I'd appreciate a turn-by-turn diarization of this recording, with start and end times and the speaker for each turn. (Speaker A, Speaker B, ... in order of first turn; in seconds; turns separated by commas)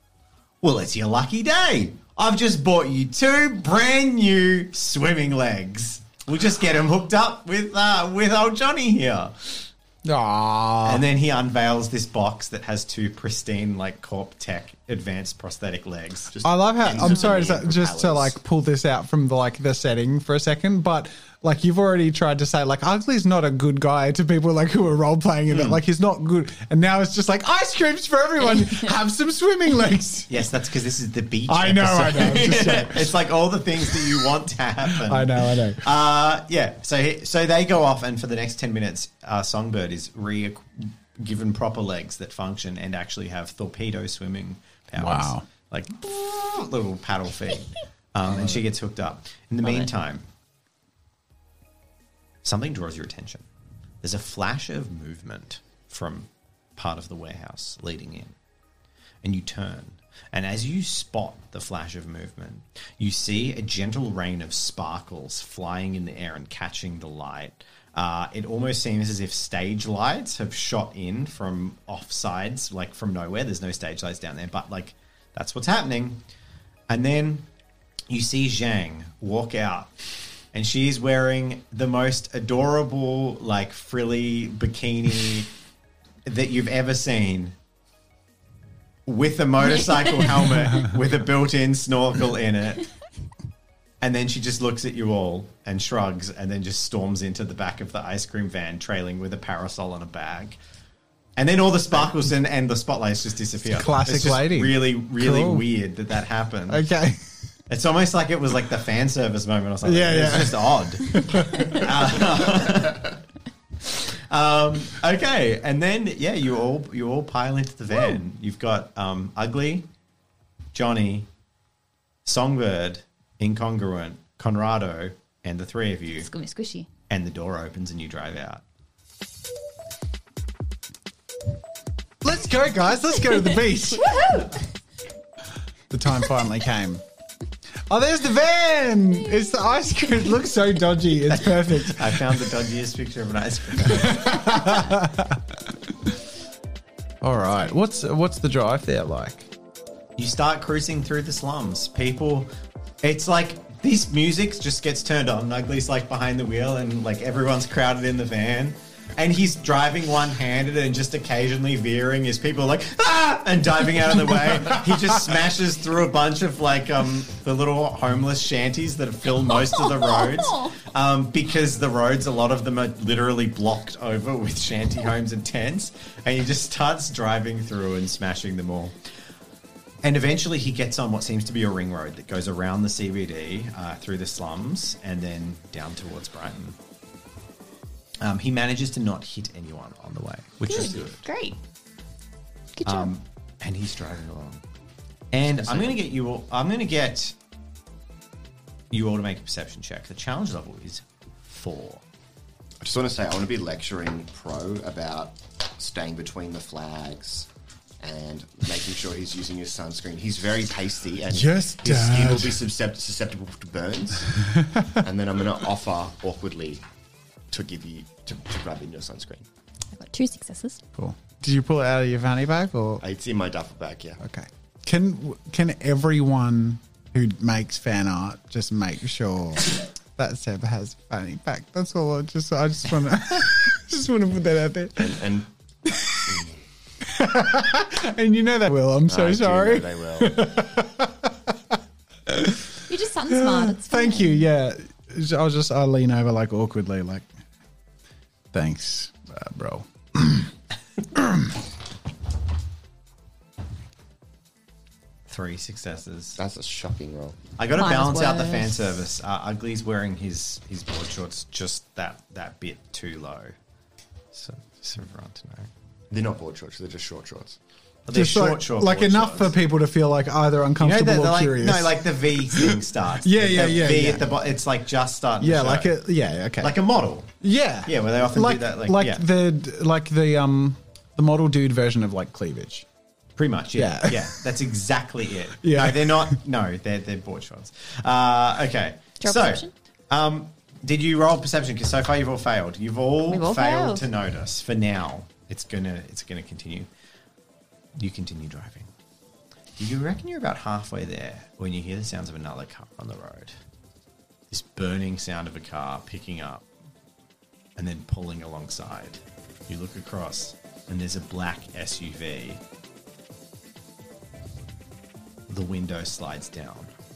Speaker A: 0.6-9.7, Speaker B: 10.0-11.0, Speaker A: 10.8-16.3, Speaker C: 16.3-18.3, Speaker B: 16.4-30.3, Speaker D: 17.0-17.4, Speaker A: 25.5-25.8, Speaker D: 28.6-28.9, Speaker A: 30.3-50.3, Speaker B: 31.5-33.1, Speaker B: 34.9-35.9, Speaker B: 45.0-45.5, Speaker A: 52.4-53.5, Speaker A: 54.0-58.3, Speaker A: 59.2-76.2, Speaker A: 76.9-77.5, Speaker A: 78.1-79.9, Speaker A: 80.5-85.5, Speaker A: 86.2-87.5, Speaker A: 89.0-92.9, Speaker D: 89.7-90.8, Speaker A: 94.0-100.6, Speaker A: 101.4-106.8, Speaker B: 103.7-105.7, Speaker B: 106.7-107.3, Speaker A: 107.7-113.2, Speaker B: 109.8-111.8, Speaker A: 113.8-119.8, Speaker A: 120.7-121.3, Speaker A: 122.2-126.3, Speaker D: 126.2-126.9, Speaker A: 127.1-128.6, Speaker B: 132.2-134.4, Speaker D: 133.9-134.6, Speaker B: 135.9-137.0, Speaker B: 137.9-142.5, Speaker A: 141.3-144.8, Speaker B: 143.8-146.1, Speaker B: 147.2-149.5, Speaker A: 150.2-152.5, Speaker A: 153.0-178.9, Speaker D: 169.6-170.8, Speaker A: 180.0-186.8, Speaker A: 188.2-191.2, Speaker D: 190.6-191.6, Speaker D: 192.8-193.1, Speaker A: 192.8-194.6, Speaker A: 195.3-197.3, Speaker C: 195.6-196.0, Speaker A: 198.9-202.0, Speaker C: 202.8-207.5, Speaker C: 208.0-216.8, Speaker B: 211.3-212.6, Speaker B: 214.5-214.9, Speaker C: 217.5-219.4, Speaker D: 219.9-220.8, Speaker B: 220.9-223.0, Speaker C: 223.0-224.2, Speaker B: 224.2-235.2, Speaker C: 235.0-235.5, Speaker B: 235.9-236.4, Speaker C: 236.3-236.5, Speaker B: 237.0-241.7, Speaker C: 239.1-240.4, Speaker B: 242.3-242.7, Speaker D: 242.9-244.4, Speaker B: 243.3-247.2, Speaker B: 248.5-250.5, Speaker B: 251.1-251.5, Speaker A: 255.3-256.4, Speaker C: 256.4-257.4, Speaker A: 257.6-263.5, Speaker D: 257.7-258.8, Speaker A: 264.3-265.7, Speaker C: 266.1-267.6, Speaker A: 268.1-269.5, Speaker B: 268.1-274.3, Speaker A: 270.8-275.9, Speaker B: 275.4-276.8, Speaker A: 276.6-277.3, Speaker B: 277.4-282.9, Speaker A: 277.8-279.2, Speaker A: 283.4-296.9, Speaker B: 283.8-284.4, Speaker B: 285.6-286.4, Speaker D: 289.2-289.7, Speaker D: 293.3-294.1, Speaker A: 298.0-298.9, Speaker A: 299.8-303.6, Speaker A: 304.5-306.6, Speaker A: 307.8-312.6, Speaker A: 315.5-316.9